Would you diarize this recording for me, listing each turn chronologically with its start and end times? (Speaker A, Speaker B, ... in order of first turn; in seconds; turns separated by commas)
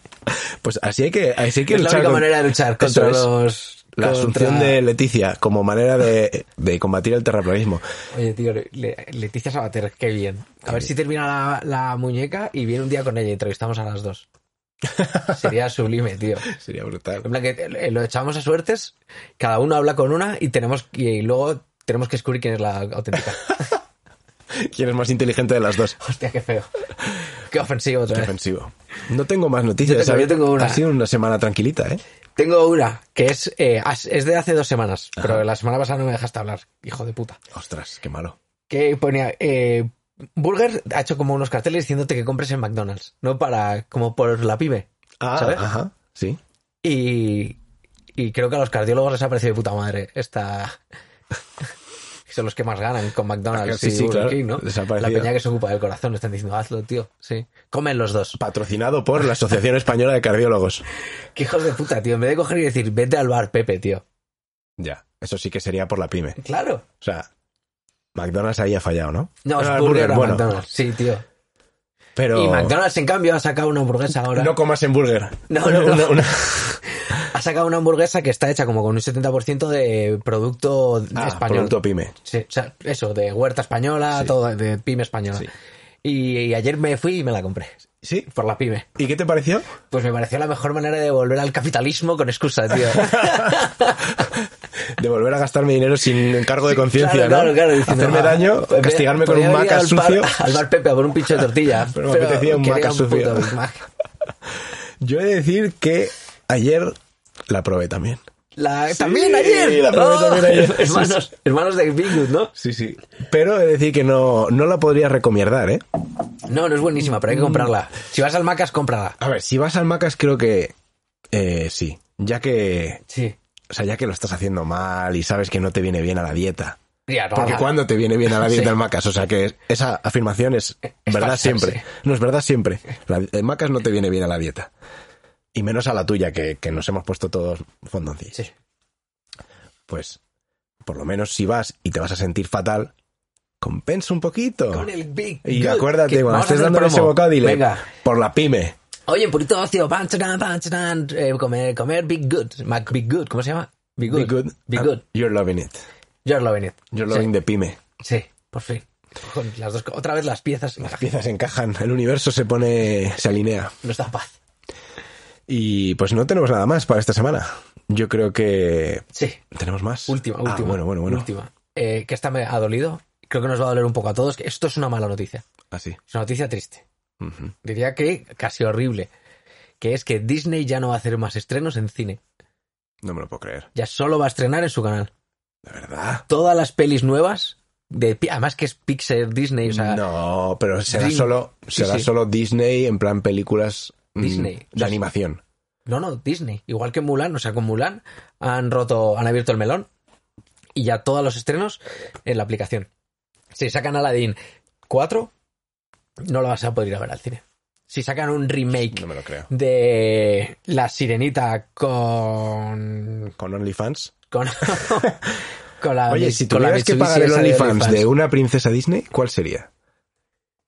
Speaker A: 0.3-3.3, Speaker B: 1.7-4.8, Speaker A: 4.0-7.8, Speaker B: 8.1-14.3, Speaker A: 14.9-15.3, Speaker B: 15.3-16.5, Speaker A: 16.4-17.3, Speaker B: 17.2-23.8, Speaker A: 24.5-26.0, Speaker B: 26.0-26.7, Speaker B: 27.5-28.3, Speaker A: 28.1-32.0, Speaker B: 29.8-30.8, Speaker B: 32.4-37.4, Speaker A: 37.5-38.4, Speaker B: 38.7-45.7, Speaker A: 45.2-46.4, Speaker B: 46.8-47.6, Speaker B: 48.1-50.8, Speaker B: 52.3-58.4, Speaker A: 53.5-55.3, Speaker A: 58.4-60.8, Speaker B: 61.3-64.0, Speaker A: 64.8-66.4, Speaker B: 66.4-66.8, Speaker A: 67.0-67.3, Speaker A: 68.1-70.5, Speaker B: 69.4-71.2, Speaker A: 72.2-72.8, Speaker B: 72.3-74.5, Speaker A: 74.3-76.8, Speaker B: 75.5-85.5, Speaker A: 81.1-82.1, Speaker B: 86.0-88.9, Speaker A: 88.0-88.3, Speaker A: 89.0-89.7, Speaker B: 89.9-94.2, Speaker A: 92.9-93.7, Speaker A: 94.2-100.5, Speaker B: 96.6-103.8, Speaker A: 101.9-103.5, Speaker A: 105.0-107.0, Speaker A: 107.5-108.2, Speaker B: 108.5-112.5, Speaker A: 108.9-111.2, Speaker A: 112.5-115.8, Speaker B: 116.5-119.2, Speaker A: 117.2-117.7, Speaker A: 119.2-120.7, Speaker A: 121.3-123.0, Speaker B: 123.1-123.3, Speaker A: 123.7-126.8, Speaker B: 127.1-127.8, Speaker A: 127.3-134.7, Speaker B: 128.4-128.7, Speaker B: 130.9-131.8, Speaker A: 135.5-138.4, Speaker A: 139.9-140.2, Speaker A: 140.8-142.9, Speaker A: 143.6-144.9, Speaker B: 144.7-147.8, Speaker A: 145.4-148.8, Speaker B: 149.1-155.0, Speaker A: 154.1-155.8, Speaker B: 156.2-157.3, Speaker A: 156.9-157.8, Speaker B: 158.0-161.1, Speaker A: 160.8-163.7, Speaker B: 163.8-164.4, Speaker A: 165.5-171.3, Speaker B: 169.1-169.4, Speaker B: 170.1-175.4, Speaker A: 175.7-176.0, Speaker B: 176.1-176.8, Speaker A: 177.2-177.5, Speaker B: 177.6-179.1, Speaker B: 179.8-182.2, Speaker A: 183.0-183.7, Speaker B: 183.7-185.1, Speaker A: 185.6-186.2, Speaker B: 186.3-190.0, Speaker A: 189.7-195.4, Speaker B: 190.9-192.1, Speaker B: 194.2-195.0, Speaker B: 195.8-199.9, Speaker B: 200.7-202.9, Speaker B: 203.5-204.4, Speaker B: 204.9-205.3, Speaker B: 206.2-213.3, Speaker A: 208.9-209.5, Speaker A: 213.4-214.1, Speaker B: 214.3-215.2, Speaker A: 214.8-215.1, Speaker B: 215.8-218.1, Speaker A: 216.1-219.7